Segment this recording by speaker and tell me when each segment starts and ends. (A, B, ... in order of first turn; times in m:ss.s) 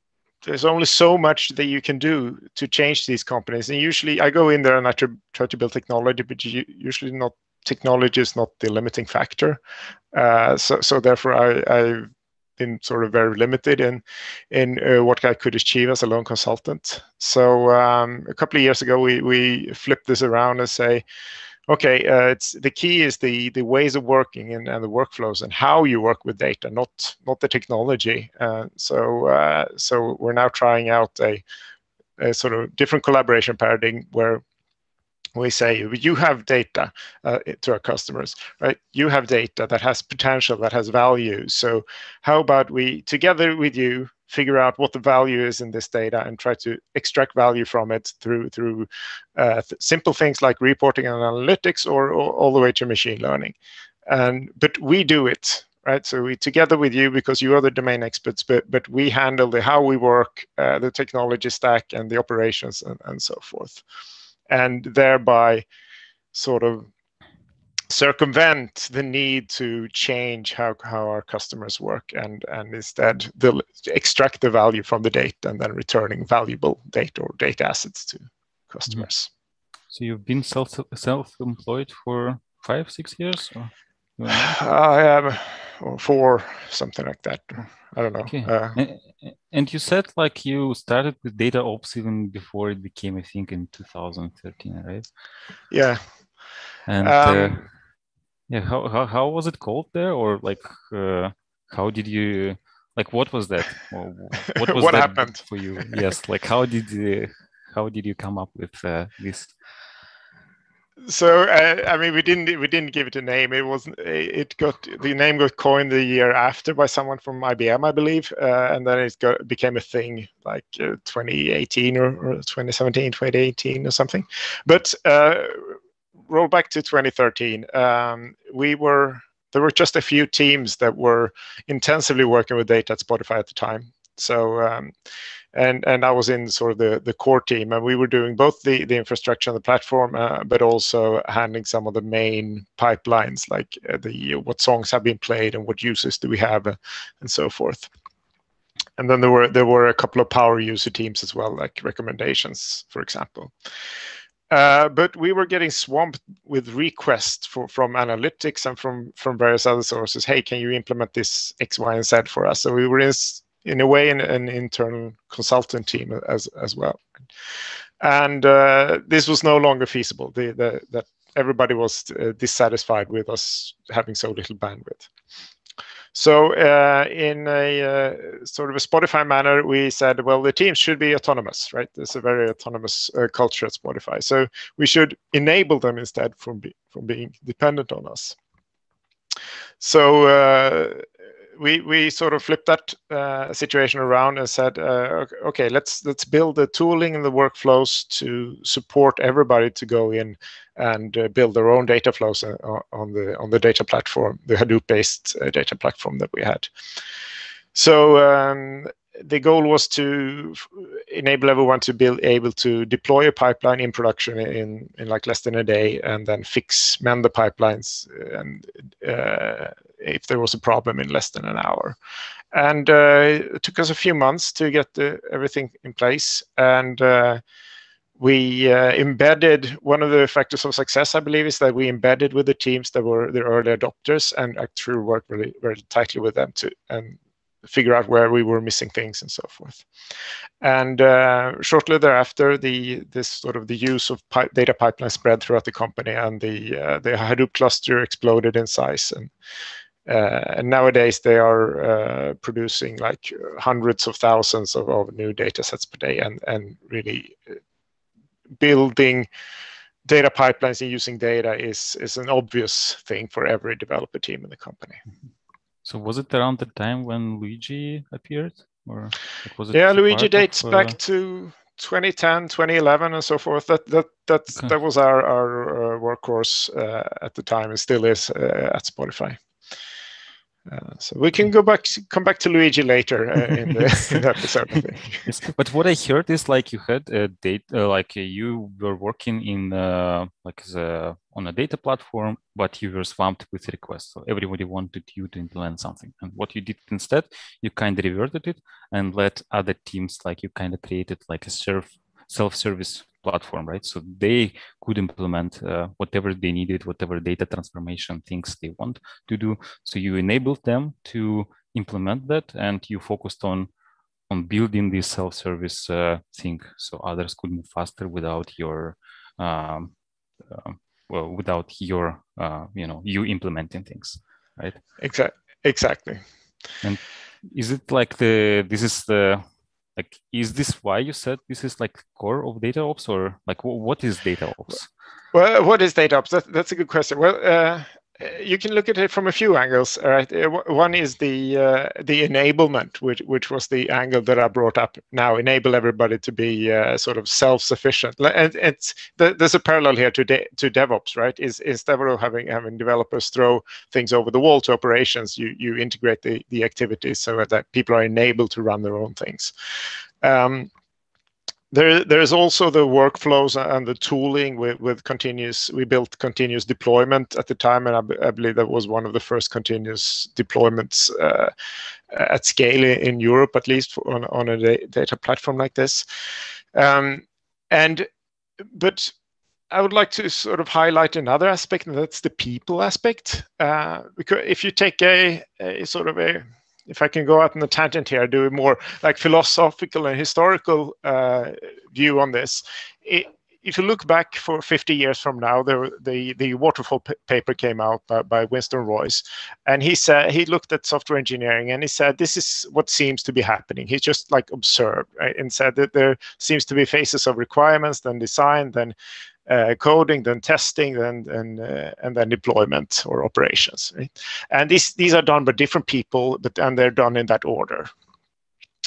0:00.4-0:09.6 A
0:10.1-0:21.0 A
0:21.7-0:31.4 A
0:32.2-0:34.4 A
0:35.4-0:53.5 A
0:54.1-1:03.8 A
1:04.5-1:05.7 A
1:06.3-1:06.9 A
1:07.9-1:19.3 A
1:19.9-1:24.5 B
1:24.3-1:28.8 A
1:28.3-1:35.0 B
1:35.7-1:36.0 A
1:36.9-1:37.6 B
1:37.0-1:37.6 A
1:38.5-1:49.5 B
1:44.5-1:45.9 A
1:51.0-2:05.7 A
2:06.3-2:14.9 A
2:15.5-2:27.9 A
2:29.0-2:33.5 A
2:34.5-2:47.0 A
2:48.0-2:55.1 A
2:56.1-3:08.4 A
3:09.8-3:11.0 A
3:11.6-3:26.7 A
3:27.7-3:42.0 A
3:42.5-3:47.4 A
3:48.2-3:59.8 A
4:00.6-4:09.3 A
4:10.0-4:17.4 A
4:18.6-4:19.3 A
4:20.0-4:25.0 A
4:25.8-4:31.0 B
4:29.7-4:39.4 A
4:40.7-4:45.3 A
4:43.9-4:44.2 B
4:45.2-5:13.7 B
5:14.3-5:19.9 B
5:20.5-5:24.8 B
5:25.0-5:26.2 A
5:26.8-5:29.4 B
5:30.0-5:34.9 B
5:35.3-5:59.5 A
6:00.2-6:00.7 A
6:01.7-6:11.5 A
6:12.1-6:16.0 A
6:16.7-6:18.1 A
6:18.6-6:19.1 A
6:19.7-6:49.0 A
6:49.5-6:57.9 A